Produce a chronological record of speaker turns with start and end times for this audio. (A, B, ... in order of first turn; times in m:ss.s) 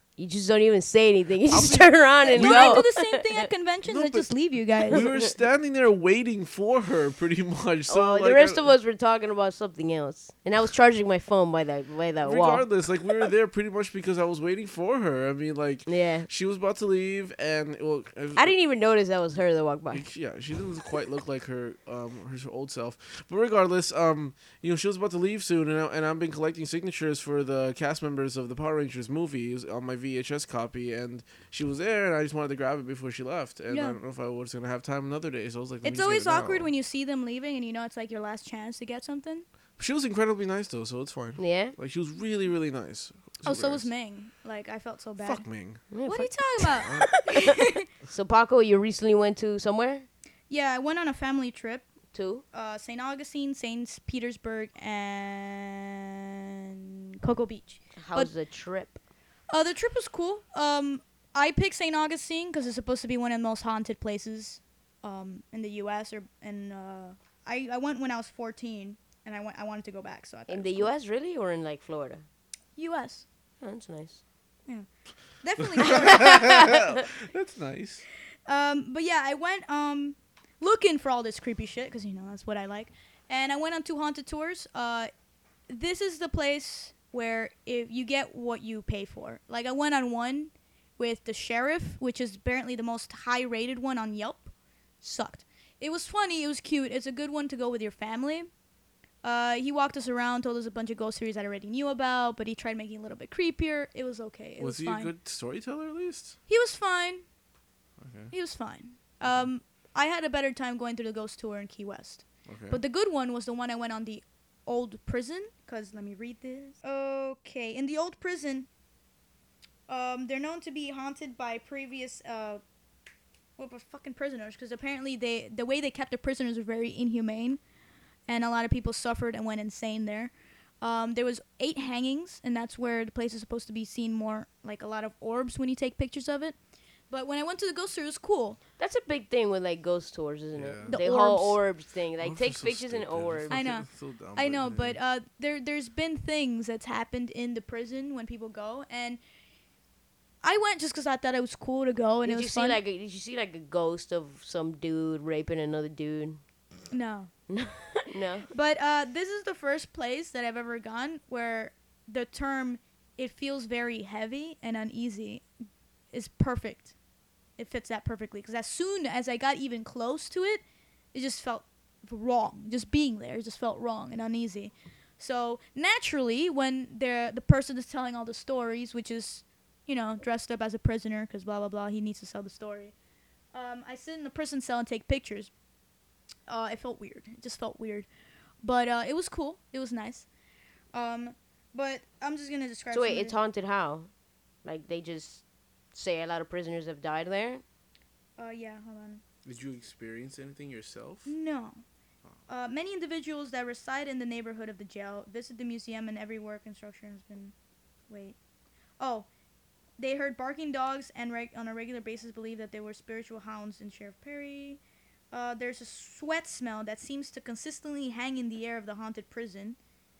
0:00.2-0:03.5 A
0:01.5-0:02.8 B
0:02.2-0:05.0 C
0:03.8-0:08.7 B
0:04.9-0:05.3 A
0:07.9-0:12.7 A
0:12.2-0:18.5 B
0:15.8-0:16.3 A
0:18.4-0:20.0 A
0:19.9-0:36.7 B
0:33.7-0:34.0 C
0:35.8-0:39.4 C
0:39.8-0:43.9 B
0:41.4-0:41.7 A
0:43.4-0:45.4 C
0:45.2-0:45.8 B
0:45.9-0:50.1 A
0:46.0-0:47.8 C
0:46.8-0:47.2 B
0:50.5-0:51.8 C
0:52.1-0:52.4 A
0:52.5-0:58.3 C
0:58.0-0:59.0 A
0:59.5-1:10.9 C
1:10.5-1:12.2 A
1:12.8-1:13.2 C
1:13.6-1:14.2 A
1:15.4-1:16.7 C
1:15.7-1:18.0 B
1:16.0-1:16.8 A
1:18.5-1:25.1 C
1:25.7-1:34.5 C
1:35.0-1:38.5 C
1:39.2-1:45.1 C
1:44.6-1:46.4 B
1:46.5-1:47.2 C
1:48.0-1:48.3 B
1:48.3-1:58.7 C
1:49.2-1:49.5 B
1:52.5-1:52.8 B
1:59.9-2:02.6 C
2:03.6-2:07.6 C
2:08.3-2:16.6 C
2:17.1-2:18.6 C
2:18.8-2:23.6 A
2:20.5-2:21.0 B
2:20.9-2:21.6 C
2:22.2-2:25.0 B
2:23.5-2:29.2 C
2:30.4-2:32.8 C
2:32.2-2:36.4 A
2:36.9-2:37.3 C
2:37.5-2:38.5 A
2:38.5-2:45.4 C
2:46.1-2:46.9 C
2:47.6-2:50.6 C
2:51.1-3:02.9 C
3:03.5-3:05.5 C
3:06.5-3:08.1 C
3:08.6-3:10.3 C
3:10.9-3:13.3 C
3:12.9-3:14.1 A
3:14.6-3:15.4 A
3:15.9-3:17.6 A
3:18.4-3:19.2 C
3:19.4-3:21.3 B
3:21.2-3:21.8 C
3:22.5-3:27.5 C
3:28.1-3:28.4 C
3:29.0-3:29.3 C
3:30.0-3:34.8 C
3:35.3-3:39.8 C